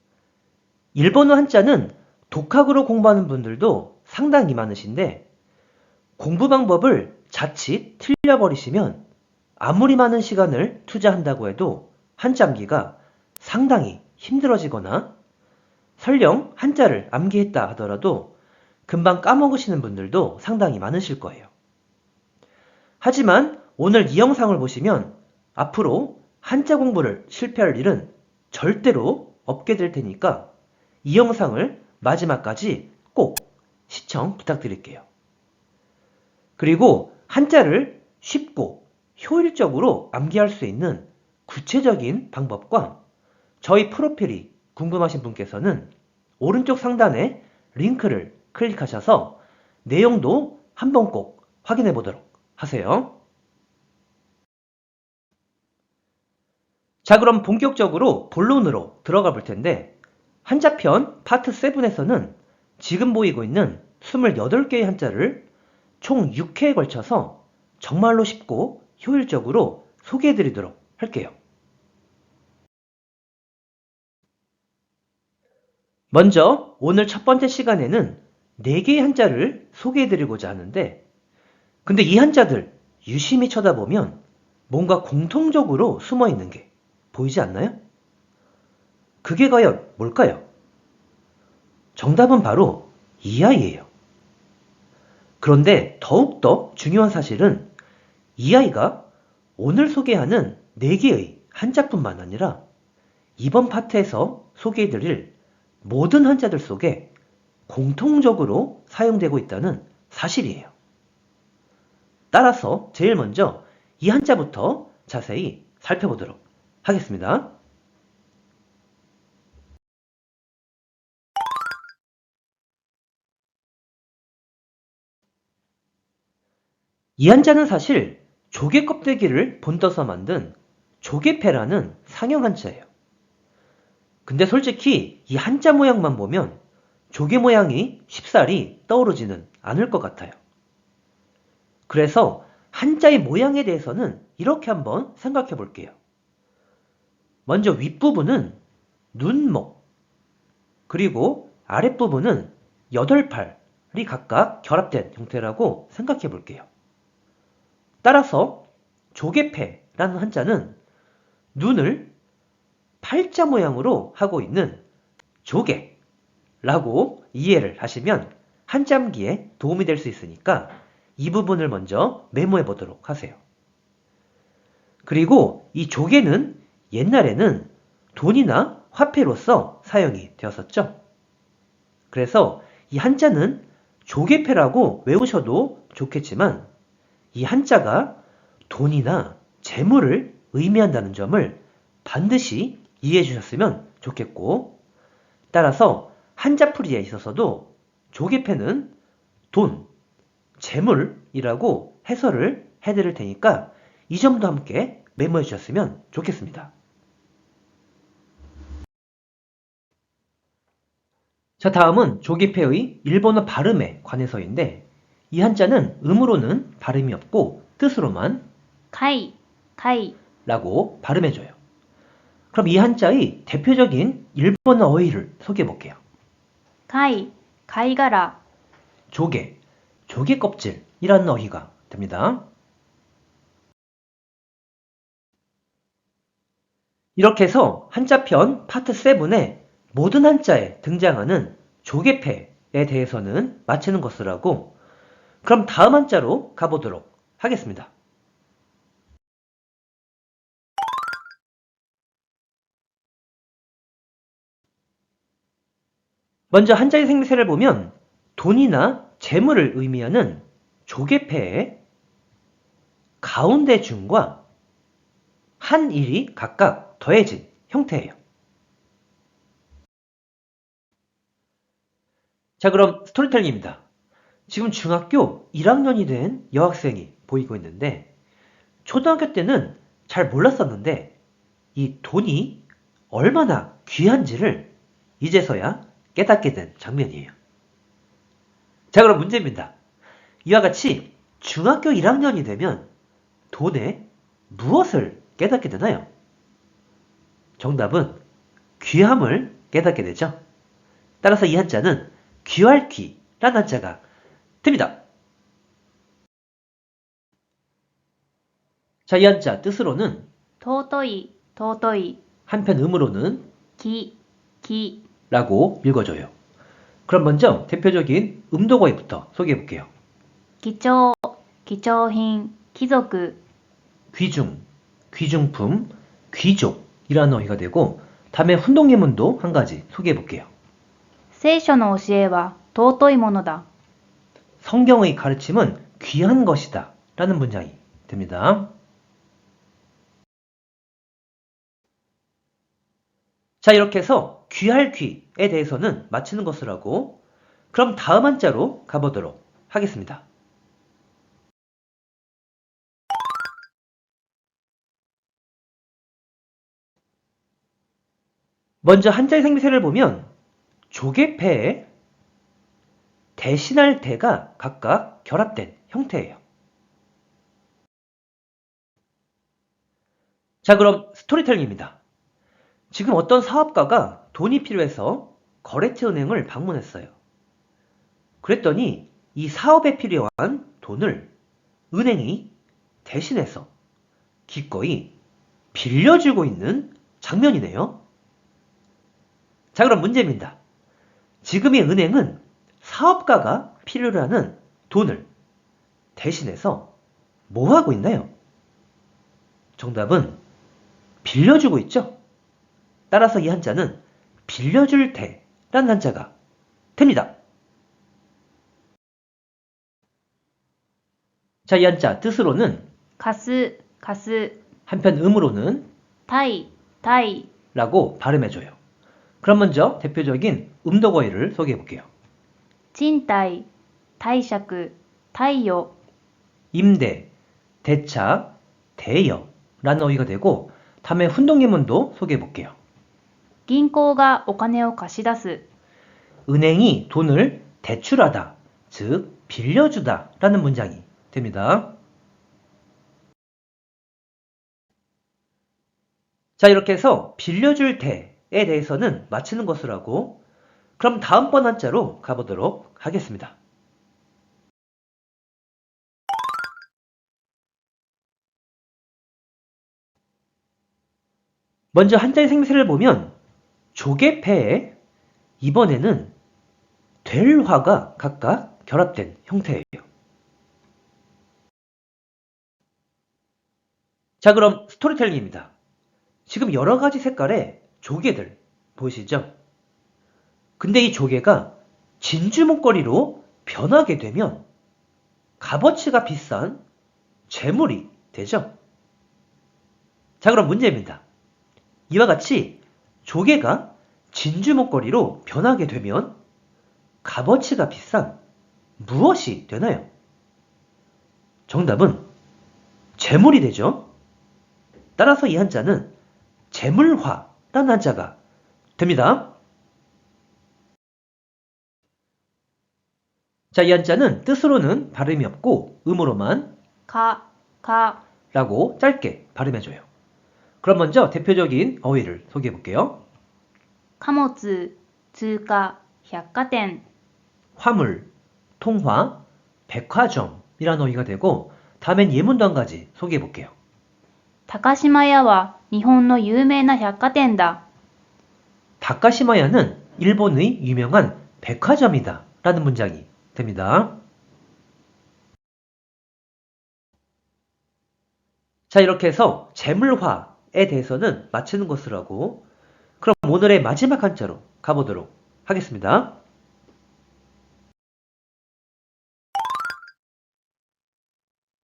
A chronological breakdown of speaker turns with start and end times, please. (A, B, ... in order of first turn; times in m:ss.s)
0:00.9-0:05.2 A
0:06.2-0:09.0 A
0:09.6-0:15.1 A
0:16.0-0:18.3 A
0:18.9-0:21.5 A
0:23.0-0:30.5 A
0:31.0-0:35.0 A
0:36.6-0:43.0 A
0:43.6-0:53.1 A
0:57.0-0:59.9 A
1:00.4-1:05.4 A
1:06.0-1:11.4 A
1:16.1-1:21.0 A
1:21.8-1:27.8 A
1:29.2-1:30.4 A
1:32.0-1:33.9 A
1:35.4-1:37.7 A
1:38.4-1:39.0 A
1:39.6-1:42.6 A
1:43.4-1:45.3 A
1:45.8-1:47.1 A
1:47.7-1:50.7 A
1:52.3-1:57.5 A
2:07.2-2:12.9 A
2:14.2-2:16.6 A
2:17.1-2:20.4 A
2:21.9-2:26.0 A
2:27.4-2:28.6 A
2:29.1-2:29.8 A
2:30.9-2:36.7 A
2:38.0-2:40.8 A
2:41.5-2:42.1 A
2:43.0-2:44.8 A
2:45.4-2:45.9 A
2:46.6-2:53.4 A
2:55.0-3:01.0 A
3:02.1-3:06.7 A
3:07.3-3:08.2 A
3:08.7-3:14.7 A
3:15.5-3:18.9 A
3:19.5-3:19.9 A
3:20.6-3:26.7 A
3:31.6-3:38.4 A
3:38.9-3:40.2 B
3:40.4-3:41.6 A
3:42.5-3:46.0 A
3:46.9-3:48.4 B
3:49.1-3:49.6 A
3:50.1-3:52.4 A
3:57.2-4:04.7 A
4:05.4-4:07.9 A
4:16.5-4:21.8 A
4:23.2-4:24.4 A
4:25.6-4:28.2 A
4:32.6-4:33.8 A
4:34.5-4:38.1 A
4:38.8-4:41.1 A
4:41.7-4:47.3 A
4:48.9-4:49.7 A
4:50.4-4:52.9 A
4:53.5-4:56.1 A
4:57.6-4:58.2 A
4:58.8-5:00.4 A
5:01.2-5:04.0 A
5:04.6-5:05.0 A
5:09.1-5:10.3 A
5:10.6-5:12.2 B
5:12.5-5:13.4 A
5:13.8-5:15.0 B
5:15.3-5:16.3 A
5:17.1-5:19.9 A
5:20.6-5:23.4 B
5:24.1-5:30.5 A
5:31.3-5:33.6 B
5:34.6-5:38.7 A
5:43.6-5:47.2 A
5:47.7-5:50.2 A
5:58.8-6:00.3 A
6:00.9-6:01.9 A
6:03.4-6:06.4 A
6:10.6-6:12.0 A
6:12.9-6:17.1 A
6:18.4-6:21.3 A
6:21.9-6:22.5 A
6:23.0-6:23.7 A
6:24.5-6:25.1 A
6:25.7-6:28.0 A
6:29.7-6:30.6 A
6:31.4-6:35.3 A
6:36.2-6:36.9 A
6:37.5-6:38.3 A
6:39.8-6:40.4 A
6:41.2-6:42.2 A
6:43.1-6:46.3 A
6:47.0-6:47.3 A
6:51.6-6:52.9 A
6:53.2-6:54.6 B
6:54.9-6:55.9 A
6:56.3-6:57.5 B
6:57.7-6:58.8 A
6:59.4-7:02.1 A
7:02.9-7:03.7 B
7:04.2-7:05.9 B
7:06.7-7:07.3 A
7:07.8-7:12.8 A
7:13.7-7:15.6 B
7:16.5-7:21.9 A
7:26.6-7:30.4 A
7:31.0-7:33.6 A
7:41.9-7:43.3 A
7:43.9-7:45.0 A
7:45.6-7:46.3 A
7:47.2-7:50.0 A
7:54.4-7:55.7 A
7:56.5-7:59.5 A
8:00.8-8:04.6 A
8:05.6-8:06.8 A
8:07.5-8:08.7 A
8:10.4-8:11.2 A
8:12.1-8:16.4 A
8:17.2-8:18.4 A
8:19.0-8:20.1 A
8:21.7-8:22.3 A
8:23.2-8:24.1 A
8:25.2-8:26.1 A
8:26.7-8:28.4 A
8:29.0-8:29.5 A
8:33.7-8:36.7 A
8:37.1-8:38.2 B
8:38.5-8:40.0 A
8:40.8-8:43.2 A
8:44.2-8:47.0 B
8:47.8-8:53.7 A
8:54.7-8:57.8 B
8:59.0-9:04.2 A
9:08.9-9:12.6 A
9:13.2-9:16.4 A